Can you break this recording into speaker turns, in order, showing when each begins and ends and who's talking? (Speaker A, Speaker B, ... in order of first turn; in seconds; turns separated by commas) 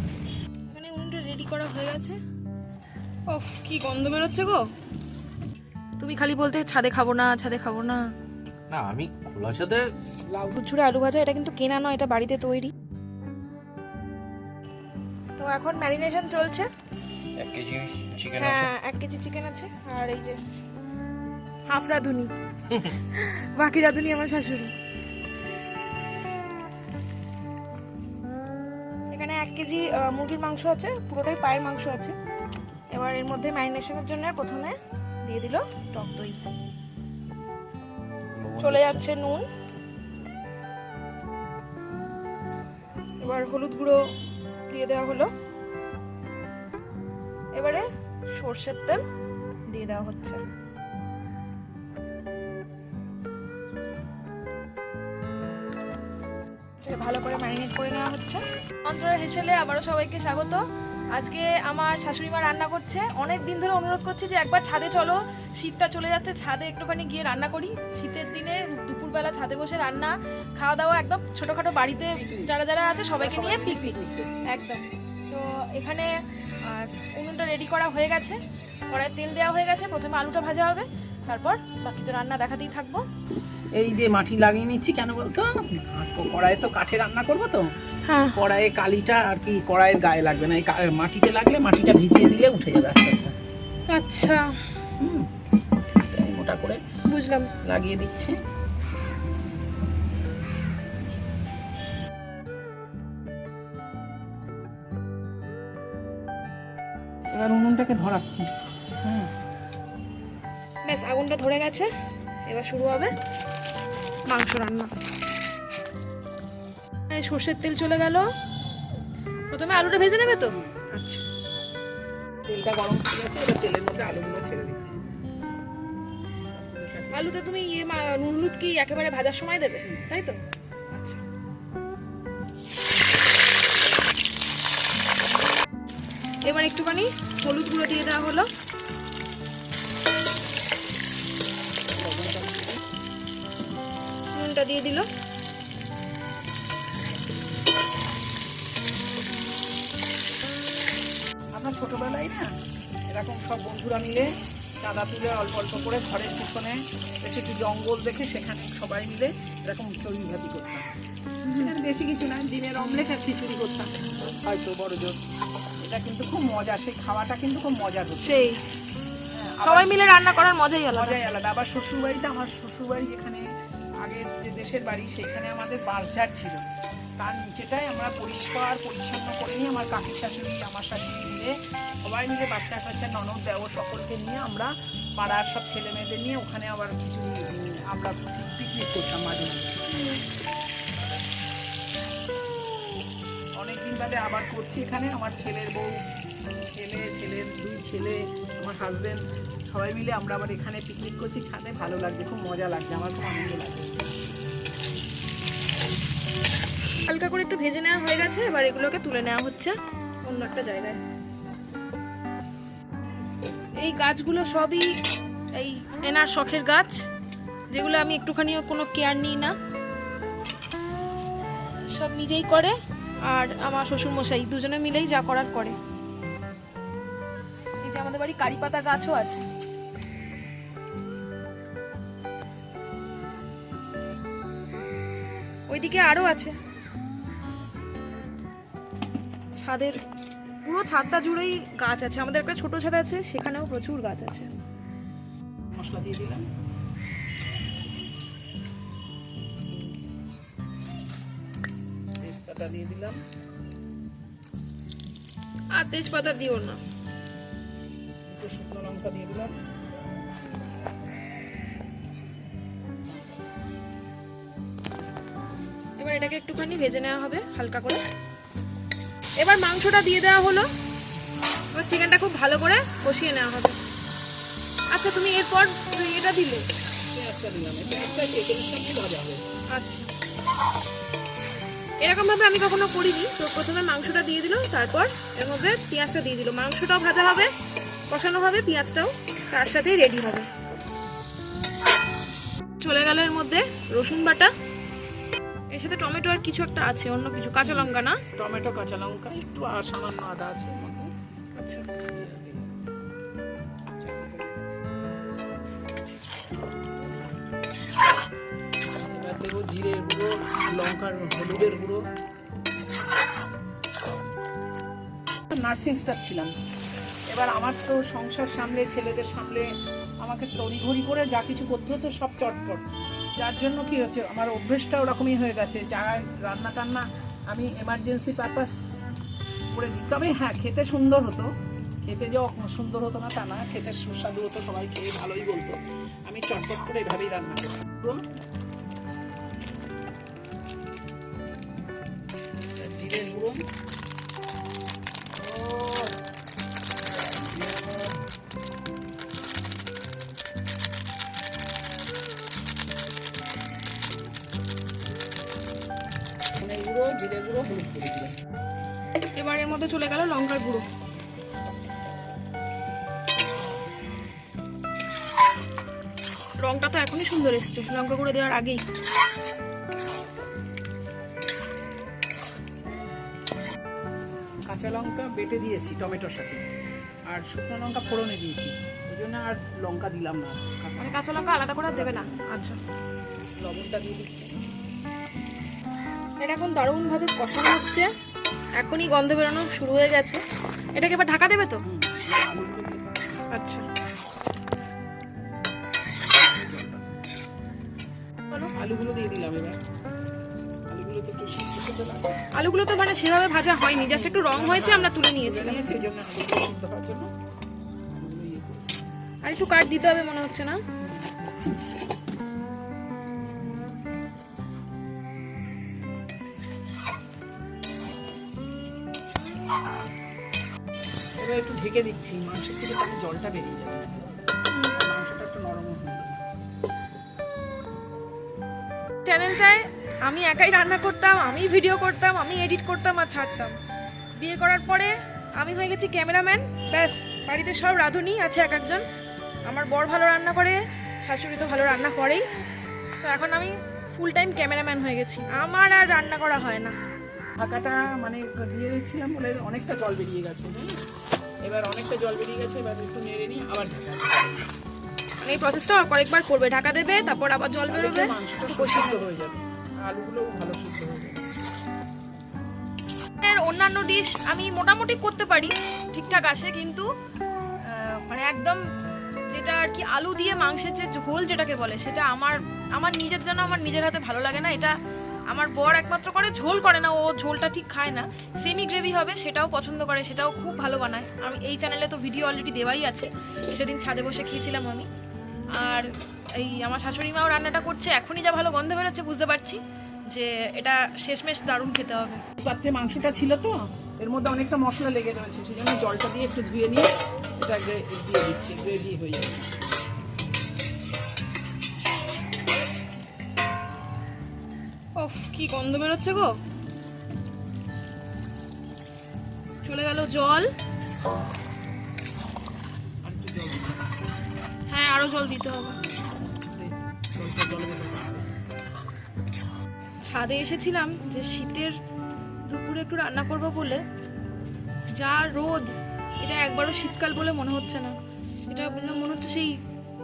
Speaker A: 0.7-2.2, Speaker A: 3.3-4.6, Speaker A: 6.0-8.0, Speaker B: 8.7-9.8, Speaker C: 10.3-10.6, Speaker A: 10.6-12.7, Speaker A: 15.4-16.7, Speaker B: 17.4-18.7, Speaker A: 18.4-20.4, Speaker A: 21.7-22.3, Speaker A: 22.9-24.7, Speaker A: 29.1-32.1, Speaker A: 32.9-36.4, Speaker B: 38.3-39.1, Speaker A: 38.6-39.5, Speaker A: 43.2-44.0, Speaker A: 44.7-45.3, Speaker A: 47.5-49.0, Speaker A: 49.7-50.4, Speaker A: 56.8-60.6, Speaker A: 61.1-74.0, Speaker C: 72.1-72.5, Speaker C: 73.2-74.5, Speaker A: 74.5-76.1, Speaker A: 76.7-83.0, Speaker C: 83.8-87.7, Speaker A: 88.1-88.3, Speaker C: 88.3-93.3, Speaker A: 93.9-94.6, Speaker C: 95.0-95.3, Speaker C: 96.0-96.8, Speaker A: 97.1-97.5, Speaker C: 97.6-98.4, Speaker C: 107.3-108.5, Speaker C: 109.0-109.3, Speaker A: 110.9-111.9, Speaker A: 112.5-113.1, Speaker A: 114.3-114.9, Speaker A: 117.1-118.3, Speaker A: 119.5-121.2, Speaker C: 122.5-125.0, Speaker C: 126.4-127.3, Speaker A: 127.1-130.4, Speaker A: 130.9-131.2, Speaker A: 136.4-138.5, Speaker C: 141.9-142.8, Speaker A: 144.3-145.1, Speaker C: 151.6-152.5, Speaker C: 153.1-154.3, Speaker C: 154.8-160.9, Speaker A: 161.4-161.7, Speaker C: 161.6-165.2, Speaker C: 165.8-168.4, Speaker A: 168.2-168.6, Speaker C: 169.3-170.1, Speaker A: 169.6-171.2, Speaker C: 170.9-173.4, Speaker C: 174.0-176.7, Speaker C: 177.2-181.5, Speaker C: 182.0-189.8, Speaker A: 189.9-190.2, Speaker C: 193.6-195.9, Speaker C: 196.6-204.1, Speaker A: 207.1-211.0, Speaker A: 213.8-214.9, Speaker A: 215.6-217.0, Speaker A: 217.7-219.6, Speaker A: 221.9-222.8, Speaker A: 223.3-225.8, Speaker A: 227.8-229.4, Speaker A: 235.7-236.6, Speaker A: 239.6-240.0, Speaker A: 240.7-244.5, Speaker C: 245.7-246.4, Speaker C: 252.2-253.2, Speaker A: 255.8-256.8, Speaker C: 258.3-259.5, Speaker A: 266.0-268.0, Speaker A: 269.4-270.7, Speaker A: 271.7-273.8, Speaker A: 274.9-276.7, Speaker C: 277.1-279.4, Speaker A: 279.7-280.1, Speaker A: 282.0-287.5, Speaker A: 288.1-290.5, Speaker A: 292.8-294.5, Speaker A: 295.7-298.2, Speaker C: 297.6-301.1, Speaker A: 301.6-301.9, Speaker C: 302.1-302.9, Speaker C: 304.0-304.8, Speaker C: 308.9-312.0, Speaker C: 315.5-316.5, Speaker C: 317.3-319.7, Speaker C: 320.2-322.8, Speaker C: 323.4-328.7, Speaker C: 329.7-331.5, Speaker C: 332.0-338.2, Speaker C: 342.8-343.6, Speaker C: 345.4-346.1, Speaker C: 347.6-347.9, Speaker C: 356.6-358.4, Speaker A: 359.4-360.9, Speaker A: 366.6-368.8, Speaker C: 374.7-376.6, Speaker C: 377.3-381.2, Speaker A: 381.0-382.8, Speaker C: 381.8-382.5, Speaker C: 383.6-384.5, Speaker A: 386.4-388.1, Speaker A: 388.8-390.4, Speaker A: 390.9-391.8, Speaker C: 391.9-393.4, Speaker A: 393.5-393.9, Speaker C: 396.2-397.0, Speaker C: 398.8-399.8, Speaker C: 400.9-402.4, Speaker A: 402.5-406.1, Speaker C: 403.9-407.3, Speaker C: 408.1-409.0, Speaker A: 409.4-410.8, Speaker C: 411.0-411.4, Speaker C: 421.4-424.3, Speaker C: 424.9-426.4, Speaker A: 429.2-433.8, Speaker A: 434.4-439.1, Speaker A: 439.7-442.4, Speaker A: 443.2-447.0, Speaker C: 447.6-450.9, Speaker C: 451.7-454.7, Speaker A: 455.4-459.2, Speaker C: 457.9-461.4, Speaker A: 463.4-467.1, Speaker A: 467.8-468.8, Speaker A: 469.5-474.9, Speaker A: 475.5-485.1, Speaker A: 485.8-492.4, Speaker C: 492.6-499.8, Speaker A: 505.2-506.5, Speaker A: 509.8-510.7, Speaker C: 513.2-514.1, Speaker A: 514.9-516.0, Speaker C: 516.0-518.5, Speaker A: 520.2-521.9, Speaker A: 522.7-524.0, Speaker A: 525.2-528.2, Speaker A: 528.7-529.8